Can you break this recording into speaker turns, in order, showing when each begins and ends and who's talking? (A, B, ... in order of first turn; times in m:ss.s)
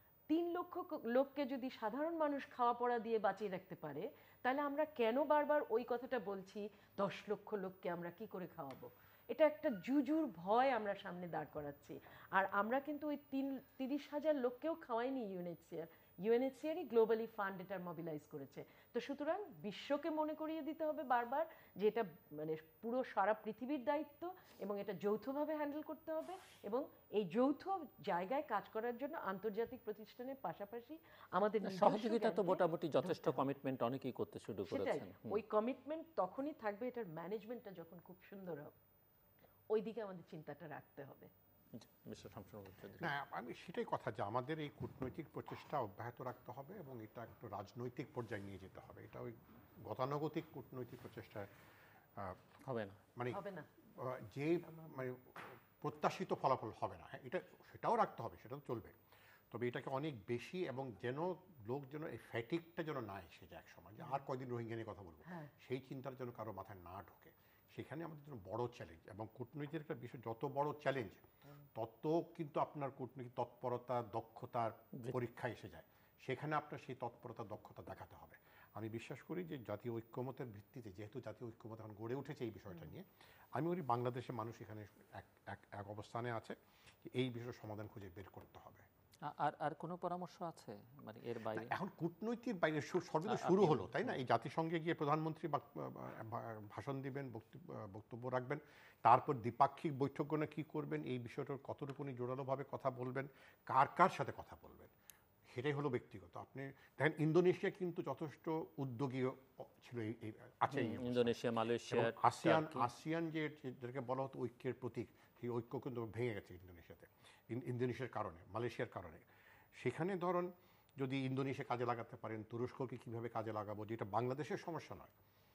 0:00.3-0:33.4 A
0:31.6-0:35.4 B
0:34.7-0:38.7 A
0:39.7-0:41.3 A
0:41.8-0:43.1 B
0:43.0-0:51.5 C
0:52.6-0:53.0 B
0:53.3-0:53.7 A
0:54.0-0:58.9 C
0:54.7-0:55.0 A
0:59.5-1:11.2 C
1:05.3-1:05.5 A
1:11.7-1:28.8 C
1:29.2-1:31.7 B
1:31.5-1:44.9 C
1:33.3-1:34.2 B
1:45.5-1:59.2 C
1:50.7-1:52.9 B
1:59.8-2:05.1 C